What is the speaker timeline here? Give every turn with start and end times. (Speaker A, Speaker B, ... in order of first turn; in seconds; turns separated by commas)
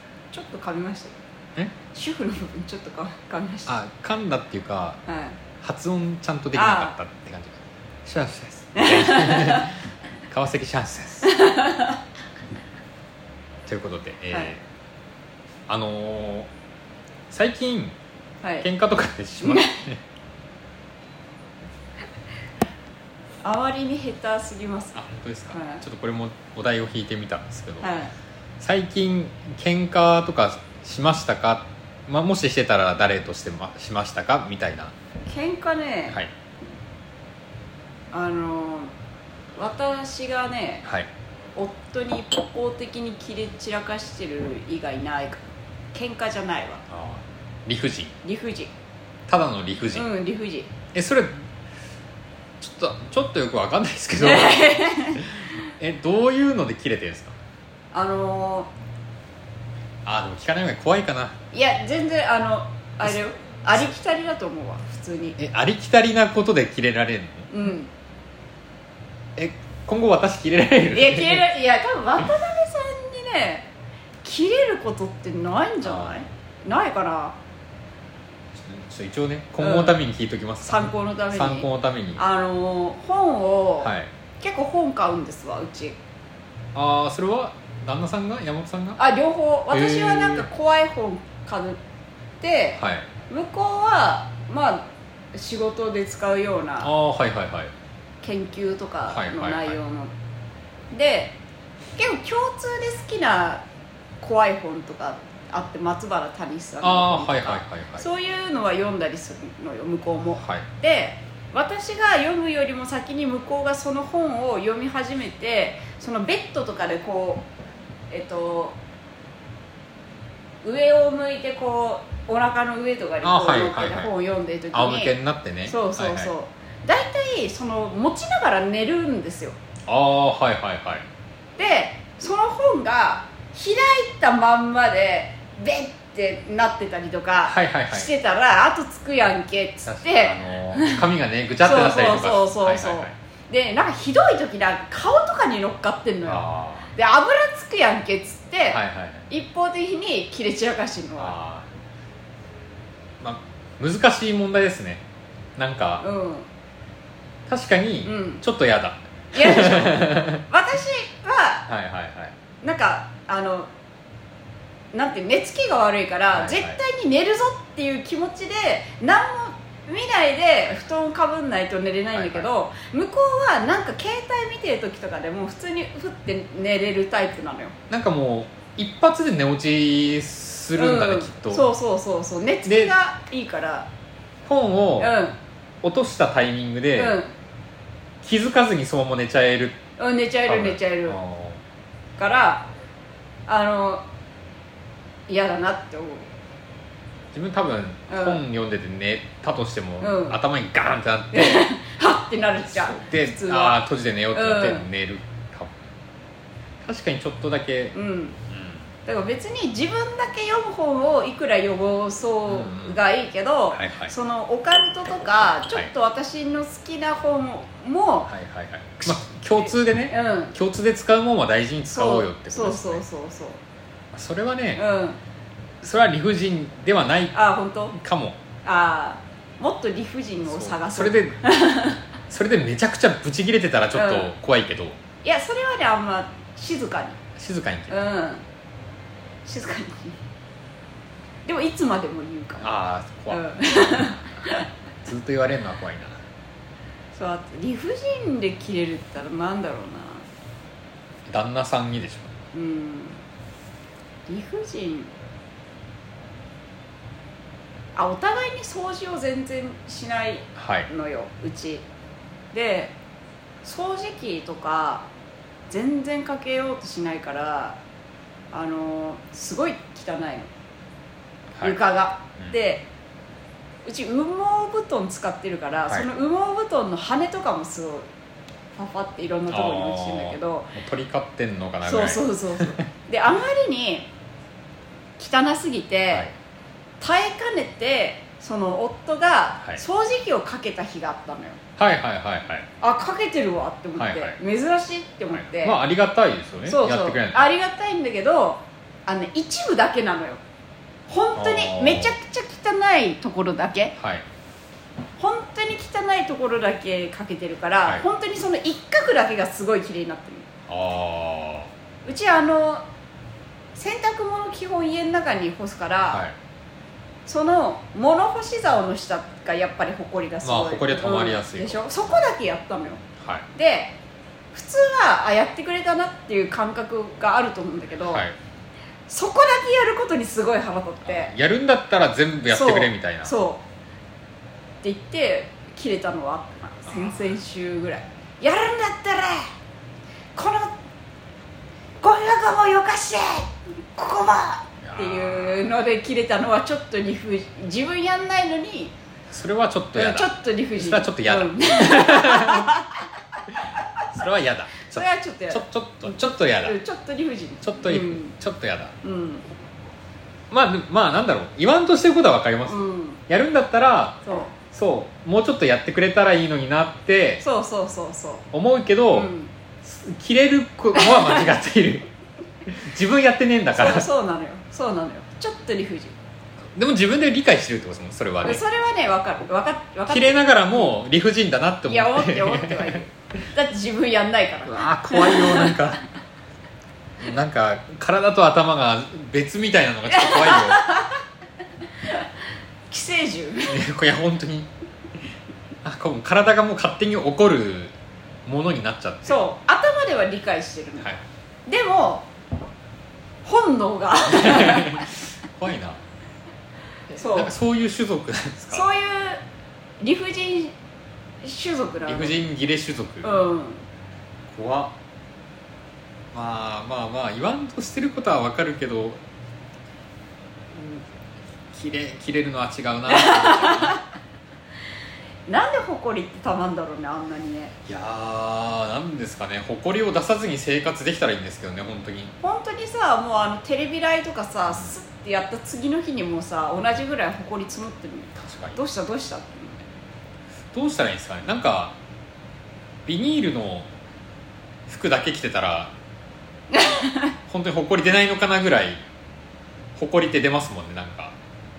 Speaker A: 0.3-1.1, Speaker A: 1.9-3.7, Speaker B: 3.7-5.0, Speaker A: 5.1-5.4, Speaker B: 5.6-11.3, Speaker A: 6.5-6.9, Speaker A: 8.7-9.7, Speaker A: 11.2-11.9, Speaker B: 13.7-14.6, Speaker B: 15.7-16.5, Speaker B: 17.3-17.9, Speaker B: 18.6-20.0, Speaker A: 19.4-19.8, Speaker A: 23.4-25.0, Speaker B: 24.9-27.9, Speaker A: 25.5-25.8, Speaker A: 27.8-28.1, Speaker B: 28.6-34.9, Speaker A: 35.3-36.2, Speaker A: 38.1-38.9, Speaker A: 39.6-40.9, Speaker A: 41.5-46.8, Speaker B: 46.9-48.2, Speaker A: 48.2-48.7, Speaker B: 49.3-50.1, Speaker A: 49.9-50.7, Speaker B: 50.9-51.4, Speaker B: 52.6-57.3, Speaker A: 54.2-55.2, Speaker A: 57.9-58.7, Speaker B: 60.0-61.4, Speaker A: 61.5-65.4, Speaker B: 65.4-67.5, Speaker A: 67.5-67.9, Speaker B: 69.3-71.5, Speaker A: 70.9-73.7, Speaker A: 74.2-77.3, Speaker B: 75.8-76.2, Speaker B: 78.5-82.2, Speaker A: 79.6-80.0, Speaker A: 80.6-86.0, Speaker B: 83.8-84.1, Speaker B: 86.7-89.0, Speaker A: 89.0-91.8, Speaker B: 89.7-90.5, Speaker A: 92.4-96.9, Speaker B: 92.8-93.1, Speaker B: 96.8-97.7, Speaker A: 98.2-100.1, Speaker B: 99.1-99.8, Speaker A: 100.9-101.3, Speaker A: 102.0-103.6, Speaker A: 104.2-117.5, Speaker B: 106.8-108.0, Speaker B: 110.4-110.7, Speaker A: 118.1-118.8, Speaker A: 120.6-125.1, Speaker B: 123.2-124.1, Speaker B: 124.7-126.3, Speaker A: 125.7-129.6, Speaker B: 129.9-131.1, Speaker A: 131.6-141.0, Speaker B: 137.4-138.1, Speaker B: 139.8-143.1, Speaker A: 141.6-151.4, Speaker B: 146.2-146.9, Speaker B: 148.7-149.3, Speaker B: 151.2-151.7, Speaker B: 153.2-155.0, Speaker B: 155.6-156.1, Speaker A: 156.0-156.5, Speaker B: 157.5-160.4, Speaker A: 158.0-158.4, Speaker A: 159.3-161.7, Speaker B: 161.7-162.3, Speaker A: 162.6-163.7, Speaker A: 164.9-177.7, Speaker B: 166.3-166.8, Speaker B: 172.1-172.5, Speaker B: 177.9-181.6, Speaker A: 180.8-183.9, Speaker B: 182.7-182.9, Speaker B: 184.4-185.1, Speaker A: 185.0-185.4, Speaker B: 185.8-187.2, Speaker A: 187.0-187.3, Speaker B: 188.2-189.8, Speaker A: 190.0-191.2, Speaker B: 190.4-191.6, Speaker A: 192.2-192.6, Speaker A: 193.5-194.0, Speaker A: 195.3-196.3, Speaker B: 197.3-201.7, Speaker A: 198.1-198.4, Speaker A: 200.0-200.4, Speaker A: 201.3-203.8, Speaker B: 202.6-205.7, Speaker A: 204.3-204.8, Speaker B: 206.8-207.9, Speaker A: 207.9-208.4, Speaker B: 208.5-208.9, Speaker A: 209.0-218.3, Speaker B: 212.5-213.0, Speaker B: 213.7-214.1, Speaker B: 215.2-215.9, Speaker B: 218.3-223.0, Speaker A: 219.0-220.5, Speaker A: 221.9-223.6, Speaker B: 224.1-224.8, Speaker A: 224.8-225.2, Speaker B: 225.8-227.3, Speaker A: 227.3-227.9, Speaker B: 227.9-228.4, Speaker A: 228.6-232.0, Speaker B: 230.5-231.4, Speaker B: 232.3-235.0, Speaker A: 233.9-234.3, Speaker A: 235.2-237.2, Speaker B: 237.3-238.1, Speaker A: 237.9-238.4, Speaker A: 239.4-240.2, Speaker A: 241.4-242.7, Speaker B: 242.6-244.2, Speaker A: 243.3-244.7, Speaker B: 245.0-246.2, Speaker A: 247.1-250.2, Speaker B: 251.3-252.3, Speaker A: 252.5-253.2, Speaker A: 254.3-255.1, Speaker A: 257.9-261.9, Speaker B: 260.6-260.9, Speaker A: 262.5-262.9, Speaker A: 263.6-265.1, Speaker A: 265.7-267.8, Speaker A: 268.5-270.5, Speaker A: 271.6-272.9, Speaker A: 273.8-278.1, Speaker A: 278.7-280.7, Speaker B: 279.5-282.8, Speaker A: 281.8-284.1, Speaker A: 285.2-286.3, Speaker A: 287.0-291.6, Speaker B: 291.8-292.7, Speaker A: 292.8-295.8, Speaker B: 294.0-294.4, Speaker B: 295.3-297.5, Speaker A: 296.6-300.4, Speaker A: 301.1-303.9, Speaker B: 301.4-302.1, Speaker B: 304.0-304.2, Speaker A: 305.2-310.5, Speaker B: 310.7-311.7, Speaker A: 312.0-312.8, Speaker A: 313.7-316.2, Speaker B: 316.1-316.4, Speaker A: 317.2-323.0, Speaker B: 320.4-322.0, Speaker B: 323.2-323.4, Speaker A: 323.5-323.9, Speaker A: 324.5-328.2, Speaker B: 328.0-328.4, Speaker A: 329.1-331.3, Speaker B: 331.1-333.3, Speaker A: 332.5-333.6, Speaker A: 334.8-339.5, Speaker A: 340.3-340.7, Speaker A: 342.0-348.9, Speaker B: 344.8-345.7, Speaker B: 349.3-352.7, Speaker A: 349.9-353.0, Speaker B: 354.1-356.8, Speaker A: 354.9-358.3, Speaker B: 357.6-358.9, Speaker A: 359.0-359.4, Speaker B: 360.5-367.4, Speaker A: 362.7-363.2, Speaker A: 364.2-364.5, Speaker A: 367.4-368.5, Speaker B: 368.5-372.1, Speaker A: 369.1-369.5, Speaker A: 370.9-371.5, Speaker B: 372.7-374.1, Speaker A: 373.7-376.1, Speaker B: 376.7-378.6, Speaker A: 378.4-381.0, Speaker B: 380.1-383.0, Speaker A: 381.9-385.8, Speaker B: 384.7-386.0, Speaker B: 387.2-390.9, Speaker A: 390.1-391.2, Speaker A: 392.9-393.8, Speaker B: 393.7-394.7, Speaker B: 395.8-397.9, Speaker B: 398.4-399.5, Speaker A: 399.2-401.1, Speaker A: 401.7-402.2, Speaker A: 403.4-405.1, Speaker B: 404.3-406.0, Speaker A: 407.1-407.5, Speaker B: 407.2-408.9, Speaker A: 408.7-409.4, Speaker A: 410.0-410.7, Speaker A: 411.4-412.5, Speaker B: 412.1-413.4, Speaker A: 413.2-413.8, Speaker B: 414.5-414.9, Speaker B: 416.3-419.2, Speaker B: 420.7-421.0, Speaker B: 421.7-424.0, Speaker A: 423.1-424.0, Speaker A: 425.5-427.7, Speaker B: 427.9-432.3, Speaker A: 432.4-439.9, Speaker B: 434.7-434.9, Speaker B: 438.4-438.8, Speaker B: 440.7-441.9, Speaker B: 443.1-443.9, Speaker B: 444.9-445.9, Speaker A: 446.7-447.3, Speaker B: 447.5-449.0, Speaker B: 449.9-451.3